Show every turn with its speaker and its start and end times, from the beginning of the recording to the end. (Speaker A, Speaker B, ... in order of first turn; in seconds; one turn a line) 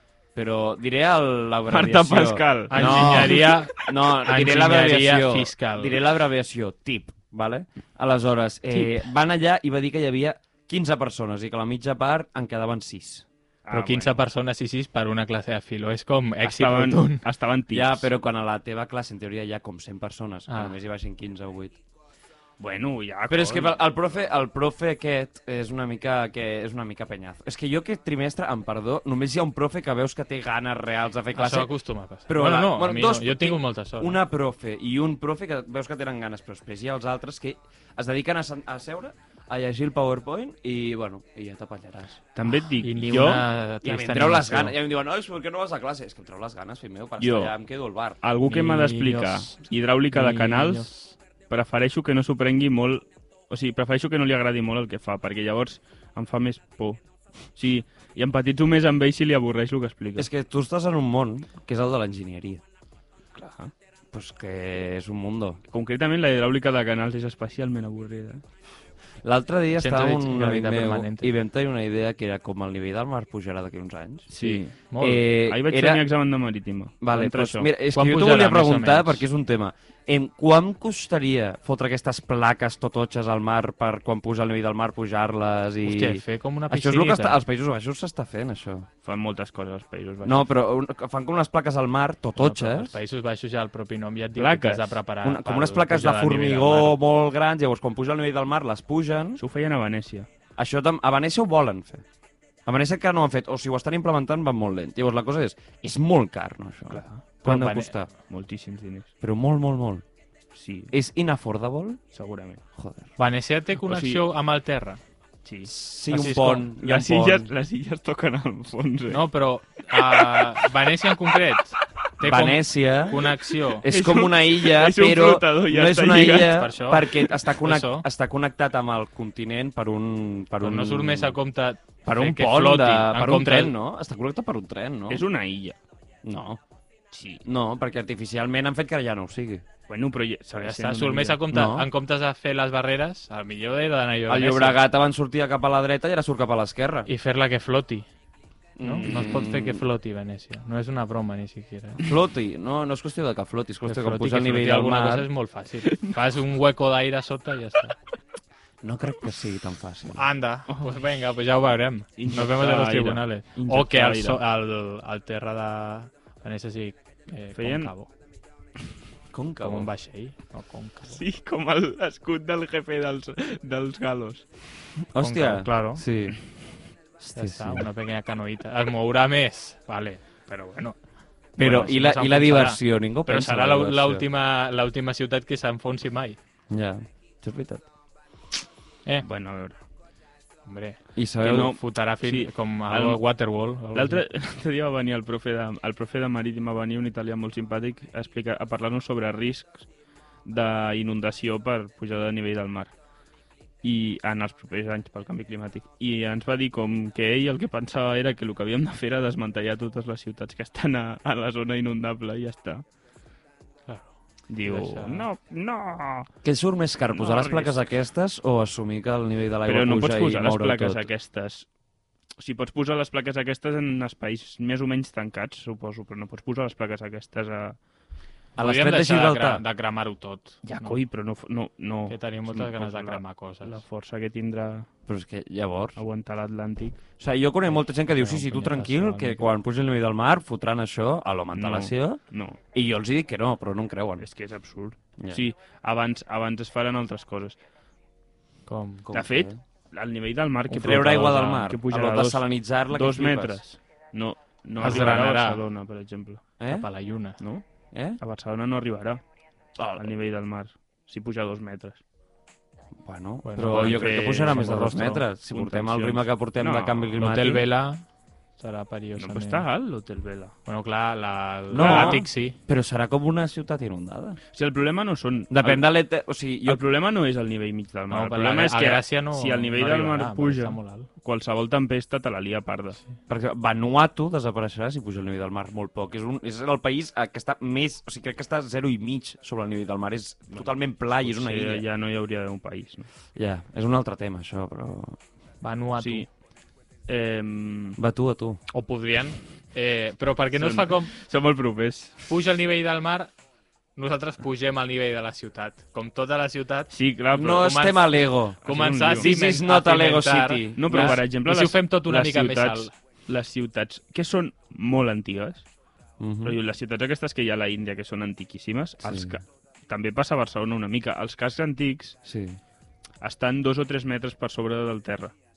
Speaker A: 0.3-13.2
Speaker B: 1.7-3.6
Speaker C: 2.7-6.0
Speaker B: 13.7-14.2
Speaker C: 13.7-17.2
Speaker B: 16.4-18.1
Speaker A: 17.7-21.8
Speaker C: 20.5-20.7
Speaker B: 22.6-23.8
Speaker A: 23.3-31.7
Speaker C: 31.3-34.2
Speaker A: 32.3-42.2
Speaker B: 42.3-43.5
Speaker C: 42.8-44.8
Speaker A: 43.8-48.2
Speaker B: 47.2-47.5
Speaker B: 48.2-50.9
Speaker C: 48.5-51.1
Speaker B: 51.5-57.0
Speaker B: 57.5-60.3
Speaker A: 60.1-62.6
Speaker B: 63.3-63.7
Speaker A: 64.1-65.6
Speaker B: 65.7-68.4
Speaker A: 69.2-76.0
Speaker C: 69.8-71.3
Speaker B: 74.3-74.8
Speaker C: 74.9-75.2
Speaker B: 75.3-77.7
Speaker A: 77.0-88.9
Speaker C: 77.9-79.2
Speaker C: 85.8-87.4
Speaker B: 89.0-90.5
Speaker A: 90.2-93.0
Speaker C: 92.4-97.0
Speaker B: 94.4-95.0
Speaker A: 95.2-99.4
Speaker B: 99.4-100.3
Speaker A: 100.5-102.0
Speaker A: 102.7-108.1
Speaker B: 106.9-107.2
Speaker C: 107.4-107.9
Speaker B: 108.3-109.1
Speaker A: 109.2-110.0
Speaker B: 110.5-110.9
Speaker A: 110.9-112.0
Speaker B: 112.1-112.6
Speaker A: 112.8-113.1
Speaker C: 113.2-115.0
Speaker B: 113.8-114.2
Speaker B: 115.4-115.7
Speaker A: 115.6-117.5
Speaker C: 116.1-116.7
Speaker B: 116.8-119.2
Speaker C: 119.1-123.8
Speaker B: 119.9-120.6
Speaker A: 122.2-131.4
Speaker B: 123.8-127.3
Speaker C: 126.4-127.1
Speaker C: 127.6-128.1
Speaker C: 130.6-133.7
Speaker A: 132.1-135.2
Speaker B: 135.1-135.8
Speaker A: 136.2-136.6
Speaker B: 137.1-137.4
Speaker A: 137.4-139.6
Speaker B: 139.9-141.4
Speaker C: 140.5-144.8
Speaker A: 141.5-141.9
Speaker A: 144.3-147.1
Speaker C: 147.1-148.1
Speaker A: 148.8-149.8
Speaker C: 148.8-152.0
Speaker A: 152.0-155.3
Speaker C: 153.8-157.9
Speaker A: 158.8-160.2
Speaker C: 160.1-168.1
Speaker B: 162.2-164.4
Speaker B: 167.6-167.9
Speaker A: 169.3-169.9
Speaker C: 169.6-171.2
Speaker B: 171.1-174.4
Speaker A: 175.1-176.4
Speaker C: 175.2-176.0
Speaker A: 177.2-177.9
Speaker C: 177.3-181.0
Speaker C: 181.5-186.4
Speaker A: 181.6-184.2
Speaker A: 186.7-187.9
Speaker B: 189.2-189.8
Speaker C: 190.7-194.2
Speaker A: 191.2-191.7
Speaker B: 191.4-193.2
Speaker B: 193.9-199.9
Speaker B: 200.4-202.9
Speaker B: 203.8-212.8
Speaker C: 213.9-215.3
Speaker B: 214.5-216.3
Speaker A: 216.4-221.1
Speaker B: 217.1-217.8
Speaker B: 219.6-221.7
Speaker B: 222.4-227.8
Speaker A: 228.6-229.6
Speaker C: 228.6-231.0
Speaker B: 230.6-234.9
Speaker C: 232.1-233.8
Speaker A: 235.1-236.0
Speaker B: 235.9-237.0
Speaker A: 237.2-242.2
Speaker C: 237.7-239.5
Speaker B: 241.5-242.6
Speaker A: 242.7-244.2
Speaker B: 244.2-247.6
Speaker A: 245.2-245.4
Speaker C: 248.7-249.1
Speaker A: 249.1-249.6
Speaker B: 249.1-256.5
Speaker A: 250.7-253.6
Speaker C: 254.8-255.6
Speaker A: 256.6-256.9
Speaker C: 256.7-257.4
Speaker B: 257.4-257.7
Speaker A: 257.9-258.2
Speaker B: 258.2-259.2
Speaker A: 259.8-260.1
Speaker B: 259.9-262.0
Speaker A: 263.0-267.6
Speaker C: 263.4-265.2
Speaker B: 263.7-267.2
Speaker C: 267.2-268.1
Speaker C: 268.6-269.7
Speaker B: 269.2-270.6
Speaker C: 270.6-272.6
Speaker A: 271.7-274.4
Speaker B: 271.8-272.2
Speaker B: 274.5-275.9
Speaker A: 275.5-276.8
Speaker B: 276.6-283.0
Speaker C: 278.1-281.1
Speaker A: 283.3-291.8
Speaker B: 290.5-293.1
Speaker A: 293.3-295.2
Speaker C: 295.6-296.3
Speaker B: 296.0-296.3
Speaker B: 297.1-298.0
Speaker A: 298.0-298.6
Speaker C: 298.7-301.1
Speaker B: 300.5-302.2
Speaker C: 302.3-303.3
Speaker C: 303.9-306.9
Speaker B: 306.9-308.0
Speaker A: 307.3-311.2
Speaker C: 307.6-307.9
Speaker C: 308.5-312.9
Speaker B: 308.6-309.3
Speaker B: 310.8-315.7
Speaker A: 316.2-316.6
Speaker B: 316.4-322.2
Speaker A: 319.0-319.4
Speaker A: 322.2-322.6
Speaker B: 323.2-325.3